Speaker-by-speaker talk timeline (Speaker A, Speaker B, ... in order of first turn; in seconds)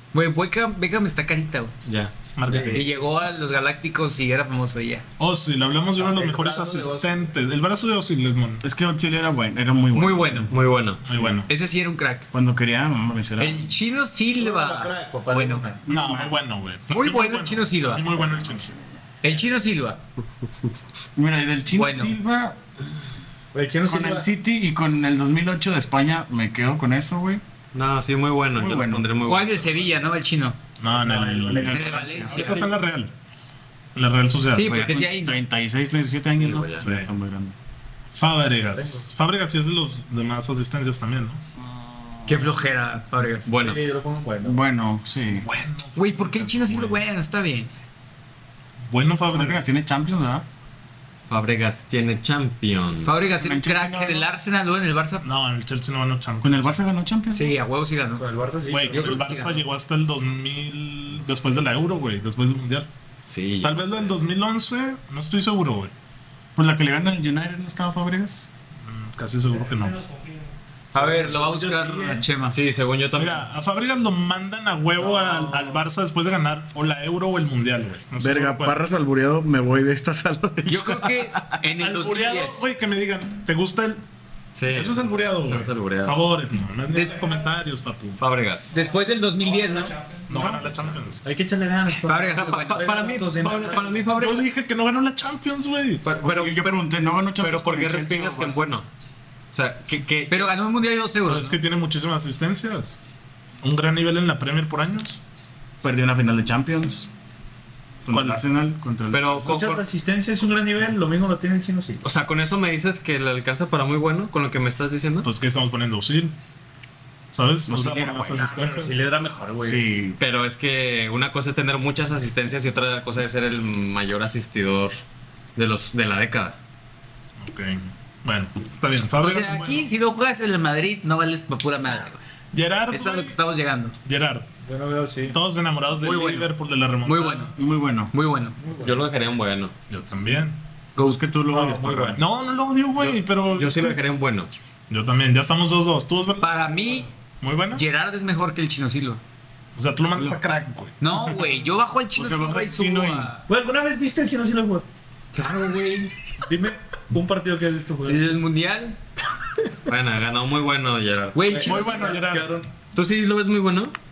Speaker A: 0.1-1.7, 2.5-5.0, 9.9-10.5, 11.5-12.3, 13.4-15.7, 16.9-18.1, 19.2-20.0, 21.7-22.1, 29.2-30.6, 31.6-32.7, 34.5-35.4, 42.3-43.5, 45.9-47.7, 53.0-55.2, 57.3-58.3, 58.9-59.6, 70.9-72.6, 80.7-82.7, 86.9-87.3, 88.7-89.9, 92.0-93.0, 100.3-101.6, 129.2-132.2, 132.9-133.9, 136.0-136.5, 137.0-137.5, 138.1-138.6, 146.4-147.1, 147.7-149.2, 151.0-153.4, 155.4-156.1, 158.1-159.0, 161.3-162.2
Speaker B: 1.8-2.1, 10.5-11.3, 27.7-29.9, 36.4-36.9, 43.5-43.8, 51.3-53.1, 63.3-64.1, 72.5-73.4, 84.5-86.2, 88.2-88.7, 92.3-94.5, 96.0-96.8, 97.4-98.8, 99.5-100.5, 109.1-109.8, 112.0-115.3, 120.2-124.9, 125.5-126.5, 138.8-139.7, 143.0-144.5, 155.3-156.1, 159.8-161.7, 162.9-163.9
Speaker C: 2.4-2.9, 5.2-8.7, 11.0-11.5, 15.8-18.7, 30.8-33.1, 33.9-34.7, 36.8-37.1, 38.1-41.4, 45.4-47.0, 48.9-49.7, 55.2-56.8, 58.7-62.9, 63.6-65.9, 68.8-70.0, 71.0-71.3, 73.1-78.9, 81.8-84.0, 84.7-88.2, 90.3-91.2, 94.1-96.1, 101.2-103.0, 103.6-105.2, 108.1-108.4, 115.2-116.3, 117.3-118.9, 127.4-129.9, 132.5-133.4, 134.0-134.4, 135.3-137.5, 139.9-140.6, 142.1-144.0, 144.9-147.8, 149.7-150.9, 161.5-162.6
Speaker D: 6.0-7.3, 14.3-15.8, 23.5-24.3, 30.8-32.7, 38.7-39.1, 43.5-44.6, 58.2-59.4, 69.5-72.2, 75.0-75.8, 87.1-87.6, 88.7-90.7, 91.2-94.1, 109.3-112.0, 118.4-119.8, 134.6-135.4, 138.6-139.0, 141.5-142.2, 153.5-154.8, 156.4-158.3, 161.6-162.7
Speaker E: 8.6-10.5, 12.3-13.7, 15.8-16.4, 18.0-18.9, 21.1-22.6, 23.9-27.4, 28.6-29.1, 34.6-37.5, 41.6-42.6, 44.4-45.5, 49.3-50.4, 53.3-54.3, 56.4-57.5, 66.5-68.5, 78.2-81.5, 90.3-90.6, 96.2-98.6, 105.8-107.1, 108.0-109.3, 117.7-118.6, 119.6-120.2, 137.6-138.1, 141.0-142.2, 152.1-153.3